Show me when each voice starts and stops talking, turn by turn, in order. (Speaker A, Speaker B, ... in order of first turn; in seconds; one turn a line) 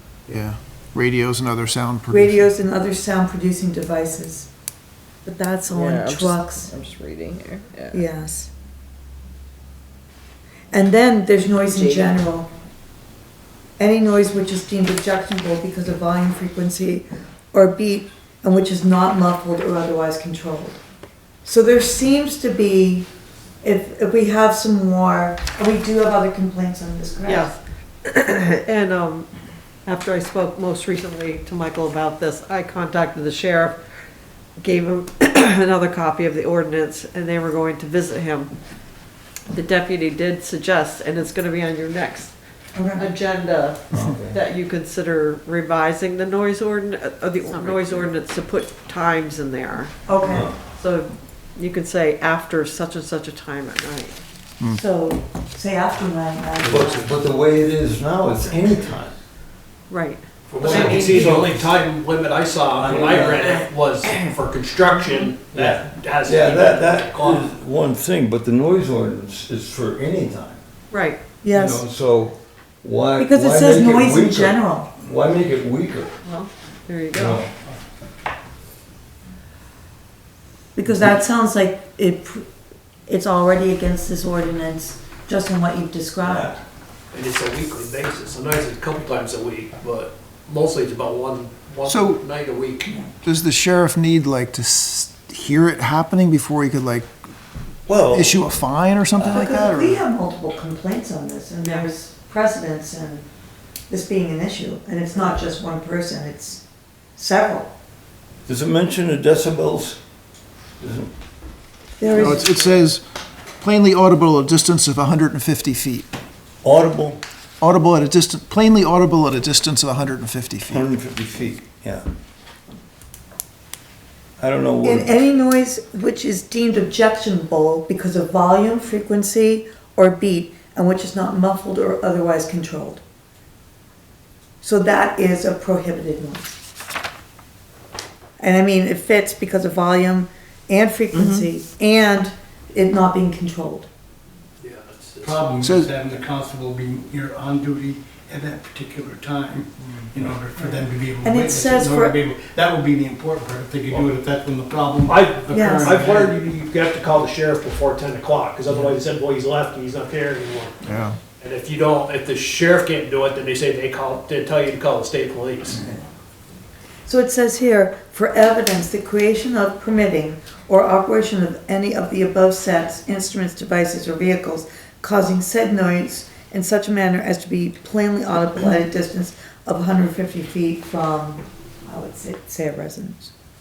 Speaker A: 0.3-2.5
Speaker B: 2.1-4.5
Speaker B: 5.2-6.8
Speaker C: 5.7-8.0
Speaker B: 7.9-8.5
Speaker B: 10.7-12.5
Speaker C: 11.6-12.1
Speaker B: 13.8-20.8
Speaker B: 21.4-23.1
Speaker B: 23.6-27.5
Speaker D: 27.2-29.3
Speaker D: 29.9-33.8
Speaker D: 34.6-38.5
Speaker D: 39.5-42.3
Speaker B: 42.7-43.1
Speaker D: 42.9-54.2
Speaker E: 43.9-44.4
Speaker C: 47.5-48.1
Speaker B: 50.1-50.5
Speaker E: 50.2-50.5
Speaker B: 54.7-57.1
Speaker E: 56.6-59.1
Speaker D: 59.9-61.3
Speaker F: 60.5-67.5
Speaker E: 60.6-61.6
Speaker E: 62.8-63.6
Speaker E: 65.5-70.6
Speaker D: 70.9-71.2
Speaker B: 71.4-71.8
Speaker E: 71.5-76.1
Speaker B: 73.2-74.9
Speaker D: 76.2-77.5
Speaker E: 77.1-77.5
Speaker B: 80.7-82.5
Speaker B: 83.1-86.6
Speaker E: 86.2-86.6
Speaker F: 87.1-92.9
Speaker A: 91.8-92.2
Speaker B: 92.8-93.1
Speaker A: 93.2-97.1
Speaker E: 97.9-98.4
Speaker A: 98.1-100.0
Speaker B: 99.3-103.3
Speaker D: 101.6-101.9
Speaker B: 103.9-106.6
Speaker B: 107.2-107.7
Speaker E: 108.5-110.0
Speaker E: 110.8-111.1
Speaker B: 112.0-112.5
Speaker A: 112.1-113.0
Speaker A: 113.6-116.1
Speaker E: 116.6-117.2
Speaker A: 117.6-120.9
Speaker E: 120.7-122.0
Speaker E: 124.4-125.1
Speaker B: 124.8-133.0
Speaker B: 134.6-136.6
Speaker B: 138.4-143.9
Speaker F: 144.6-145.7
Speaker G: 145.2-156.3
Speaker A: 145.6-145.9
Speaker B: 150.6-152.2
Speaker F: 155.1-160.7
Speaker B: 155.5-155.9
Speaker A: 160.8-161.2
Speaker F: 161.4-166.0
Speaker B: 167.1-183.3